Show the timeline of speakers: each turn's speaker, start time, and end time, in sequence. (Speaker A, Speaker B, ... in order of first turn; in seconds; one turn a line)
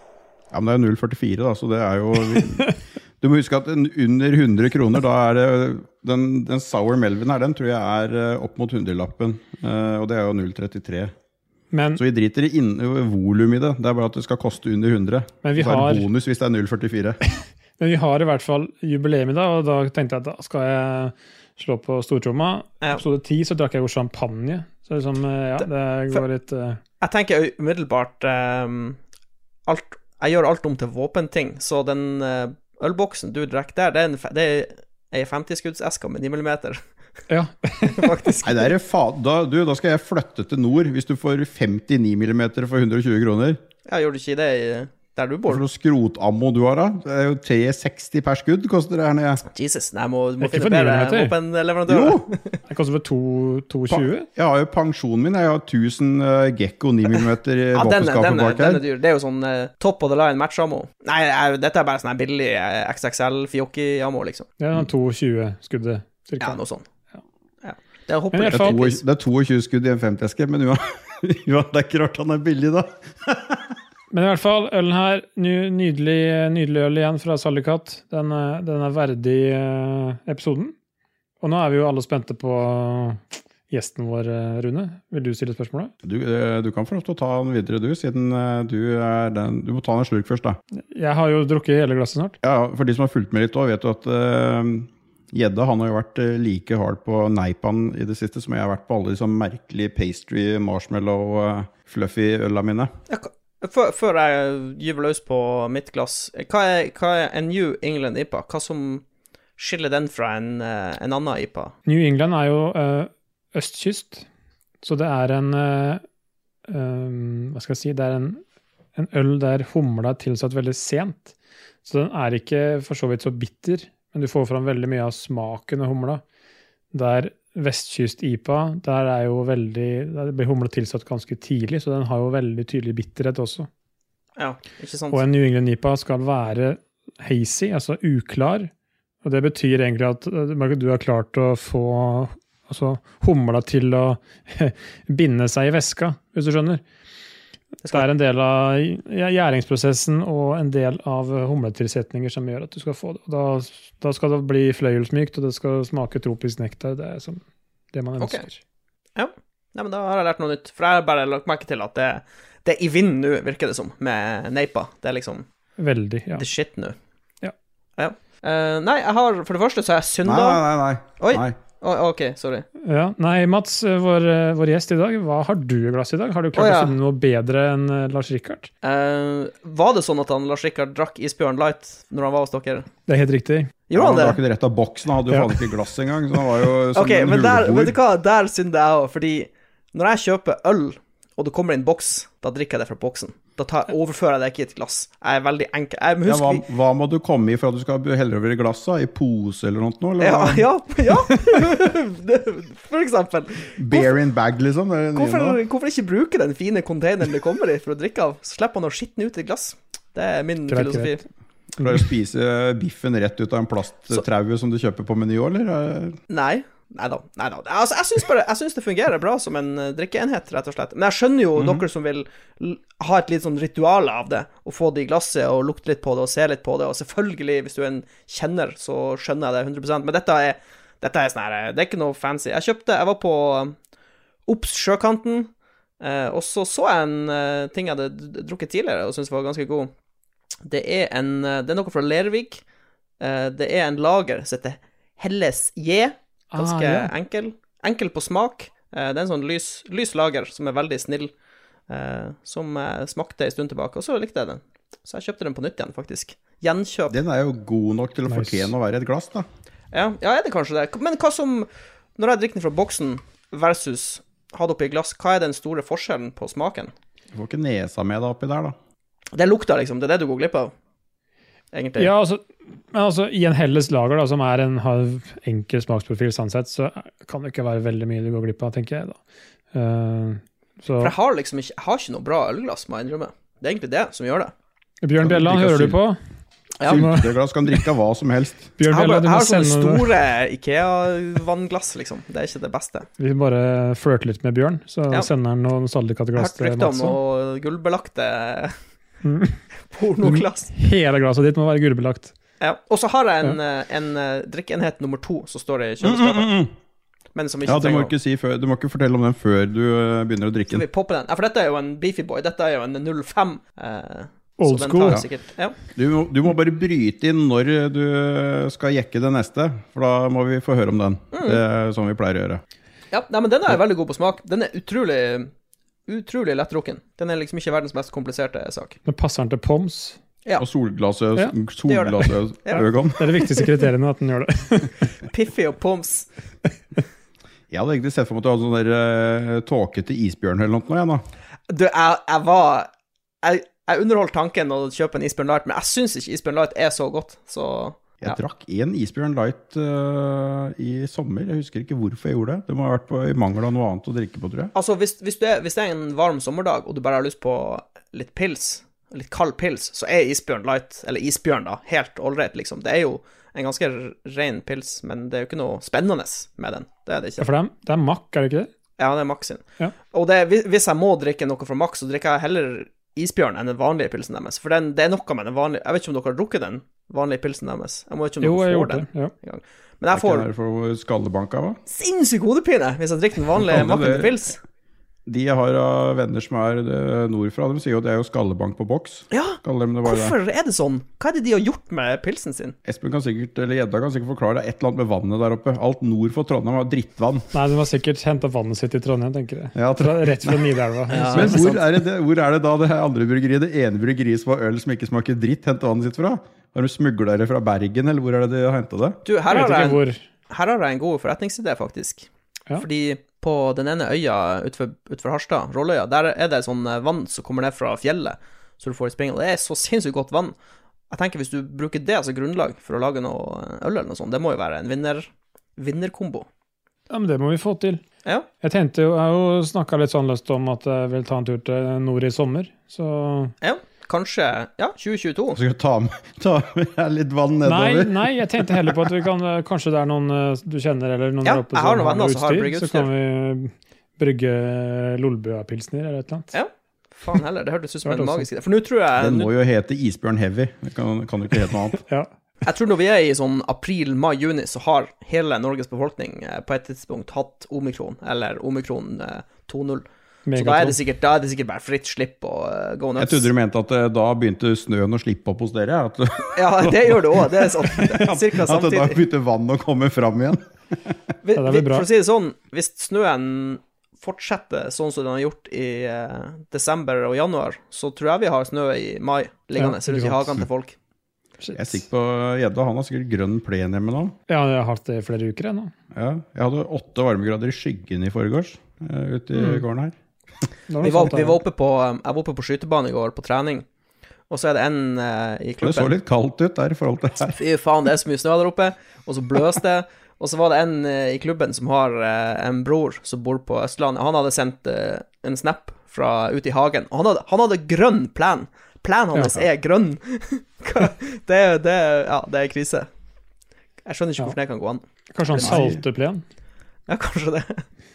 Speaker A: 0.5-11.1
Speaker B: 2.4-2.7
Speaker B: 11.7-12.0
Speaker A: 11.9-17.2
Speaker B: 15.4-16.1
Speaker B: 17.8-26.8
Speaker C: 25.6-26.2
Speaker C: 27.0-29.0
Speaker C: 29.6-36.8
Speaker B: 37.3-38.3
Speaker C: 37.8-38.7
Speaker A: 38.4-43.6
Speaker C: 43.9-45.6
Speaker A: 45.5-49.4
Speaker C: 49.5-52.6
Speaker B: 50.4-51.3
Speaker A: 51.9-52.2
Speaker B: 52.7-54.3
Speaker A: 53.9-58.8
Speaker C: 57.7-64.5
Speaker B: 64.6-66.6
Speaker C: 66.4-66.8
Speaker C: 67.6-69.0
Speaker B: 68.3-68.7
Speaker A: 68.5-73.8
Speaker B: 74.1-80.7
Speaker B: 81.4-85.9
Speaker A: 86.0-90.6
Speaker B: 90.9-92.4
Speaker A: 92.4-102.9
Speaker C: 103.1-109.0
Speaker C: 109.6-111.7
Speaker B: 111.8-114.2
Speaker B: 114.8-116.0
Speaker B: 116.7-118.4
Speaker B: 118.9-121.3
Speaker B: 121.8-126.2
Speaker B: 126.9-133.7
Speaker C: 134.4-135.2
Speaker B: 135.1-138.7
Speaker B: 139.2-146.8
Speaker B: 147.9-157.4
Speaker B: 157.9-158.6
Speaker C: 158.2-158.4
Speaker C: 159.2-165.4
Speaker B: 165.8-166.5
Speaker C: 166.4-166.9
Speaker C: 168.0-170.6
Speaker A: 170.2-171.5
Speaker C: 171.2-172.7
Speaker B: 172.8-178.7
Speaker C: 176.5-176.9
Speaker C: 178.8-182.9
Speaker B: 183.1-183.7
Speaker C: 183.9-184.4
Speaker A: 183.9-187.9
Speaker C: 186.9-196.7
Speaker A: 196.2-200.7
Speaker C: 200.2-204.1
Speaker A: 203.8-205.6
Speaker C: 205.1-211.2
Speaker B: 210.7-211.2
Speaker A: 211.8-216.2
Speaker C: 216.3-233.7
Speaker A: 221.6-221.8
Speaker C: 234.5-239.9
Speaker C: 240.6-242.6
Speaker C: 243.2-251.3
Speaker B: 246.5-247.1
Speaker C: 251.9-257.2
Speaker A: 257.1-259.4
Speaker B: 258.3-258.7
Speaker C: 259.9-266.9
Speaker A: 267.3-268.8
Speaker C: 269.3-270.7
Speaker C: 271.7-272.1
Speaker B: 272.0-279.2
Speaker B: 279.7-281.1
Speaker C: 281.0-284.5
Speaker B: 285.0-286.2
Speaker A: 285.2-286.0
Speaker C: 286.8-287.1
Speaker A: 286.8-288.7
Speaker B: 286.9-287.3
Speaker B: 288.8-290.1
Speaker C: 288.9-293.1
Speaker B: 293.2-297.2
Speaker C: 296.4-298.8
Speaker B: 299.2-299.6
Speaker C: 299.9-300.7
Speaker B: 300.2-302.3
Speaker C: 302.6-306.5
Speaker A: 306.0-306.7
Speaker C: 307.3-308.1
Speaker A: 307.6-310.8
Speaker C: 310.7-315.8
Speaker B: 314.6-315.2
Speaker A: 315.9-322.6
Speaker C: 321.3-321.6
Speaker C: 323.1-325.5
Speaker C: 326.1-329.0
Speaker B: 329.1-330.2
Speaker A: 330.6-333.4
Speaker C: 331.9-333.7
Speaker B: 333.2-335.1
Speaker C: 335.2-336.3
Speaker A: 337.7-341.2
Speaker C: 341.7-342.9
Speaker C: 343.4-348.4
Speaker A: 348.2-354.7
Speaker C: 354.7-367.5
Speaker B: 367.4-368.7
Speaker C: 369.0-380.5
Speaker B: 378.4-379.3
Speaker A: 380.1-381.8
Speaker C: 381.9-384.6
Speaker A: 383.5-384.4
Speaker A: 385.2-390.4
Speaker C: 389.3-392.8
Speaker A: 392.8-397.5
Speaker B: 397.5-401.7
Speaker A: 399.7-400.7
Speaker C: 401.1-401.8
Speaker A: 401.3-409.2
Speaker C: 409.2-420.5
Speaker B: 409.5-410.2
Speaker C: 421.1-426.5
Speaker B: 427.1-428.0
Speaker B: 428.6-433.5
Speaker C: 433.6-435.6
Speaker A: 435.5-439.1
Speaker B: 437.6-446.5
Speaker C: 441.4-443.1
Speaker C: 446.5-449.5
Speaker B: 448.1-448.5
Speaker A: 449.2-452.0
Speaker C: 452.6-460.0
Speaker B: 460.4-461.0
Speaker C: 460.6-463.5
Speaker A: 463.2-471.2
Speaker C: 466.5-469.2
Speaker C: 471.4-480.9
Speaker B: 471.5-472.1
Speaker B: 479.8-480.6
Speaker B: 481.6-482.0
Speaker A: 481.7-484.3
Speaker B: 484.5-485.9
Speaker A: 486.1-490.1
Speaker B: 489.6-489.8
Speaker B: 490.9-491.6
Speaker C: 491.0-493.8
Speaker C: 494.5-496.1
Speaker A: 495.8-497.6
Speaker C: 497.6-513.1
Speaker C: 514.0-515.9
Speaker B: 515.3-516.4
Speaker A: 515.6-516.0
Speaker C: 517.1-517.8